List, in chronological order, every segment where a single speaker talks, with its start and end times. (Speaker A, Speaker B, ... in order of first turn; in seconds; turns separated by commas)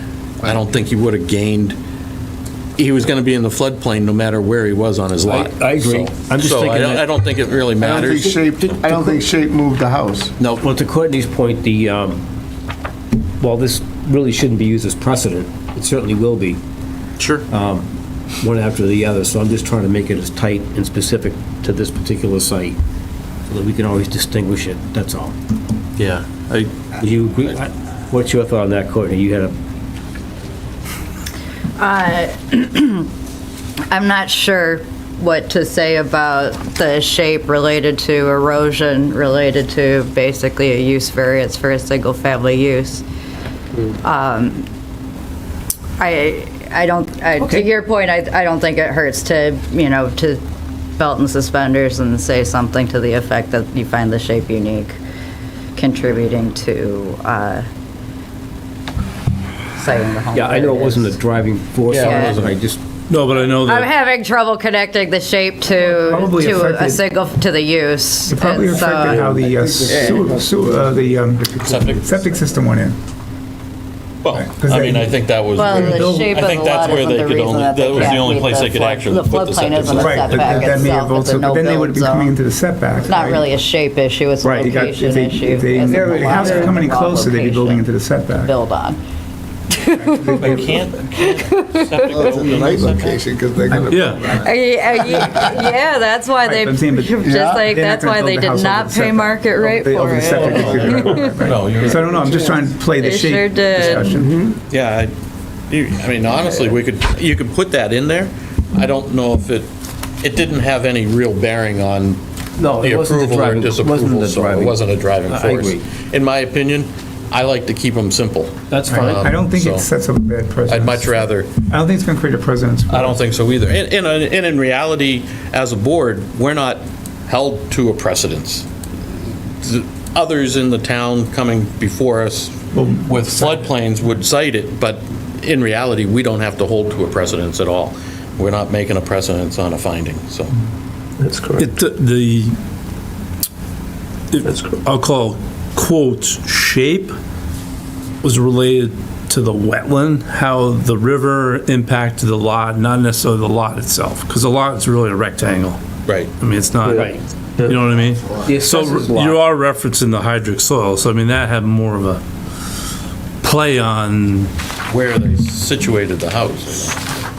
Speaker A: 0.4-1.8, Speaker A: 2.8-8.5, Speaker B: 5.2-7.1, Speaker C: 7.8-10.3, Speaker B: 10.4-12.2, Speaker B: 13.4-16.6, Speaker A: 17.2-17.5, Speaker B: 17.5-17.9, Speaker B: 18.4-22.8, Speaker B: 23.5-25.4, Speaker A: 26.0-26.8, Speaker B: 26.9-29.6, Speaker D: 31.8-33.1, Speaker D: 33.9-43.0, Speaker D: 44.0-44.7, Speaker D: 46.0-50.4, Speaker B: 47.4-47.7, Speaker D: 51.0-55.0, Speaker D: 55.8-57.7, Speaker D: 59.8-61.2, Speaker B: 60.3-62.8, Speaker A: 61.9-62.6, Speaker D: 61.9-62.4, Speaker E: 63.1-63.9, Speaker D: 63.5-69.3, Speaker F: 65.7-67.0, Speaker F: 68.3-73.0, Speaker B: 69.3-70.1, Speaker C: 69.9-70.3, Speaker A: 71.6-72.2, Speaker A: 74.2-80.5, Speaker F: 74.3-76.3, Speaker D: 75.6-82.3, Speaker F: 79.8-83.5, Speaker D: 83.1-89.0, Speaker F: 84.4-88.5, Speaker D: 89.7-90.7, Speaker F: 90.0-90.8, Speaker A: 90.4-93.2, Speaker D: 91.2-92.3, Speaker C: 92.1-94.5, Speaker E: 93.9-94.4, Speaker D: 94.3-101.4, Speaker F: 96.4-104.3, Speaker A: 100.2-102.5, Speaker D: 103.0-104.1, Speaker A: 104.7-105.1, Speaker A: 105.7-109.7, Speaker A: 110.2-112.2, Speaker B: 112.6-115.8, Speaker A: 112.8-119.8, Speaker B: 118.7-119.3, Speaker F: 118.9-123.2, Speaker A: 120.7-121.5, Speaker A: 122.9-128.7, Speaker A: 129.5-140.5, Speaker F: 132.7-133.7, Speaker B: 141.3-141.6, Speaker E: 141.6-142.6, Speaker E: 144.3-147.1, Speaker E: 148.2-155.8, Speaker A: 156.1-156.3, Speaker E: 156.4-162.2, Speaker B: 156.9-157.8, Speaker B: 158.4-159.4, Speaker E: 163.4-164.5, Speaker A: 164.9-167.0